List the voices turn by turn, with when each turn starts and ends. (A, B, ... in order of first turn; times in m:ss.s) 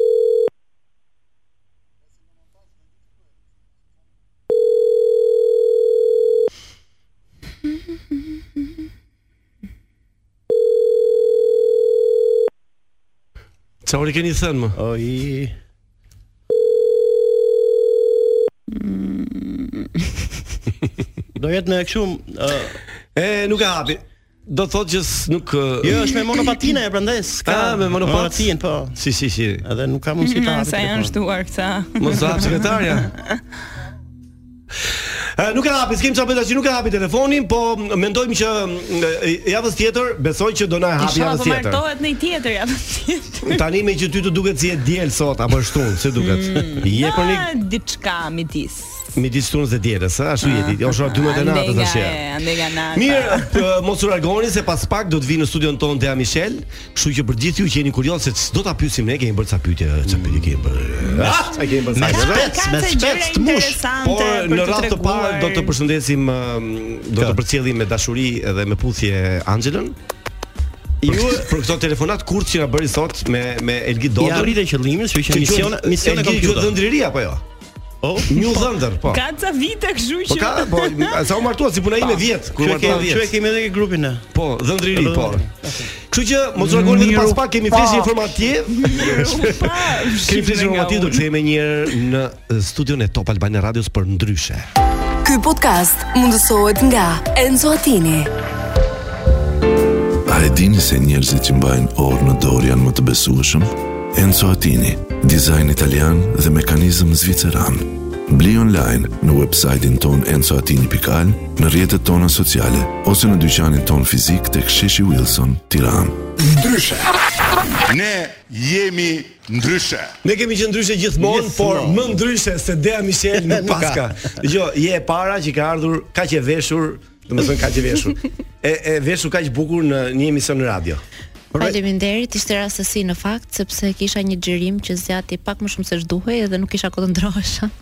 0:13.8-0:14.8 A
0:14.8-0:15.6 B
0:18.7-0:20.1 C
0:21.4-0:22.8 B
0:23.2-0:26.1 A
0:25.8-0:29.0 B
0:27.5-0:29.6 A
0:29.6-0:31.1 B
0:30.2-0:33.2 C
0:32.0-0:33.1 A
0:35.2-0:41.8 A
0:41.0-0:43.6 C
0:43.4-0:47.5 A
0:46.2-0:49.1 C
0:49.2-0:52.2 A
0:50.4-0:53.6 C
0:52.9-1:02.5 A
1:00.1-1:03.8 B
1:02.0-1:05.7 C
1:04.0-1:10.0 A
1:11.0-1:11.5 B
1:11.1-1:14.6 A
1:14.2-1:16.8 B
1:15.3-1:17.4 A
1:18.0-1:18.7 B
1:18.3-1:19.2 A
1:19.1-1:21.3 C
1:20.3-1:23.3 A
1:22.6-1:24.3 B
1:24.3-1:25.5 A
1:24.9-1:25.9 B
1:26.1-1:34.7 A
1:26.9-1:28.1 C
1:28.7-1:31.2 C
1:35.2-1:38.3 D
1:40.3-1:56.3 E
1:56.4-1:57.1 F
1:57.9-2:00.1 F
2:00.2-2:11.0 A
2:01.2-2:02.1 B
2:03.4-2:04.4 B
2:11.6-2:17.7 G